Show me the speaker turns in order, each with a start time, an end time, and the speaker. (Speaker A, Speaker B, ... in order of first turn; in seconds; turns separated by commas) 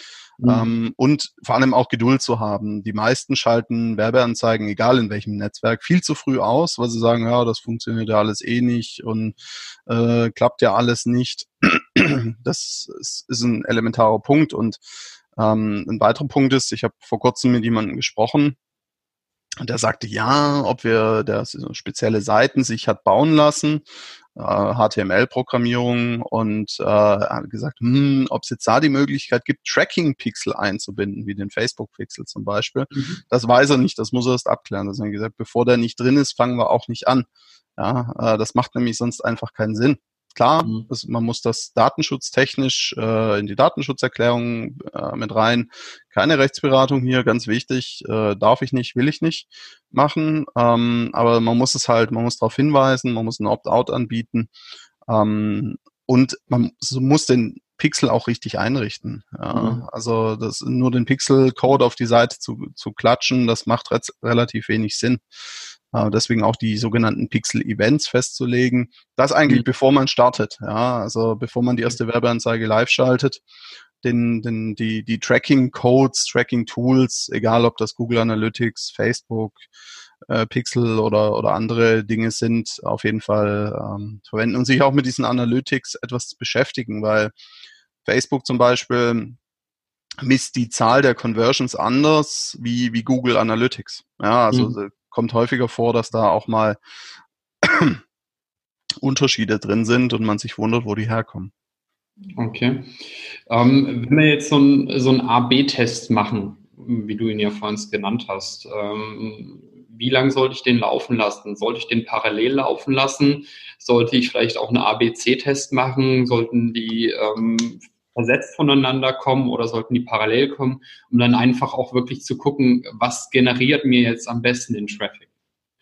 Speaker A: 0.4-0.7, Speaker B: 0.4-14.8, Speaker B: 15.3-18.6, Speaker B: 19.6-23.8, Speaker B: 24.3-54.5, Speaker A: 32.9-33.2, Speaker B: 55.1-65.2, Speaker A: 59.5-59.8, Speaker B: 65.9-73.4, Speaker B: 74.0-79.6, Speaker B: 80.3-87.3, Speaker B: 88.0-89.4, Speaker B: 90.2-96.8, Speaker B: 97.6-98.0, Speaker B: 99.0-101.5, Speaker A: 102.3-102.9, Speaker A: 103.5-125.3